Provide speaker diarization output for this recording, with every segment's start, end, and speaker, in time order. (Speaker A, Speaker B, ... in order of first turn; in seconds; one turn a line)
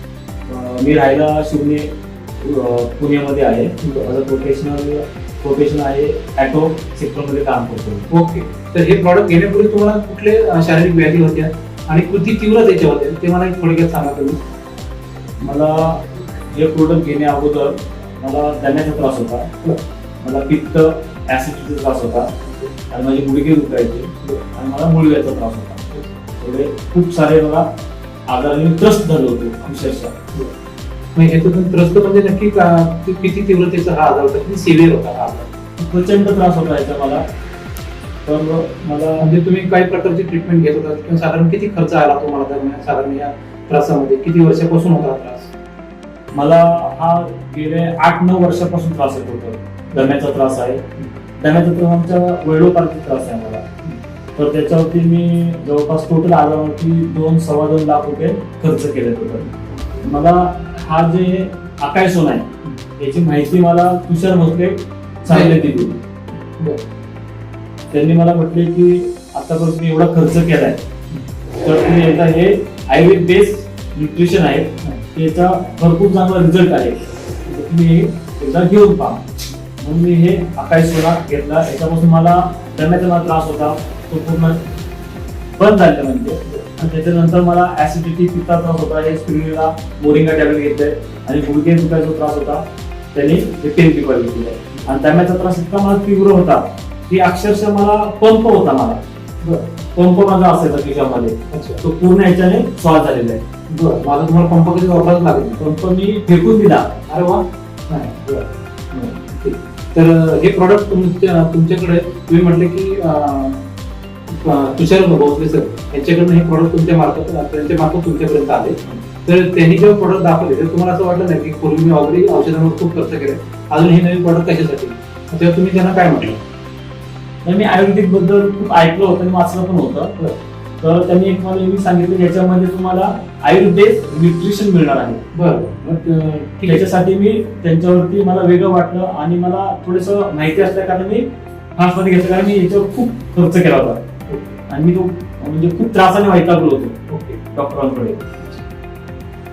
Speaker A: 0.5-8.1
Speaker B: 8.1-14.4
Speaker A: 15.4-19.5
Speaker A: 20.2-22.3
Speaker B: 22.4-22.7
Speaker A: 22.9-27.7
Speaker A: 28.3-30.1
Speaker B: 31.1-35.5
Speaker A: 35.8-37.2
Speaker A: 38.2-39.3
Speaker B: 39.2-45.5
Speaker A: 46.3-50.9
Speaker A: 51.4-53.7
Speaker A: 54.4-66.0
Speaker B: 65.3-65.6
Speaker A: 67.9-70.8
Speaker A: 71.6-79.3
Speaker A: 79.8-84.6
Speaker A: 85.5-99.0
Speaker A: 99.9-103.4
Speaker B: 101.5-101.8
Speaker B: 103.7-105.6
Speaker A: 105.6-107.0
Speaker B: 107.1-113.6
Speaker B: 114.3-126.4
Speaker A: 127.4-130.2
Speaker A: 130.8-135.2
Speaker B: 135.3-136.8
Speaker A: 136.0-144.0
Speaker B: 144.3-144.6
Speaker A: 144.7-147.0
Speaker B: 147.1-147.4
Speaker A: 147.5-148.3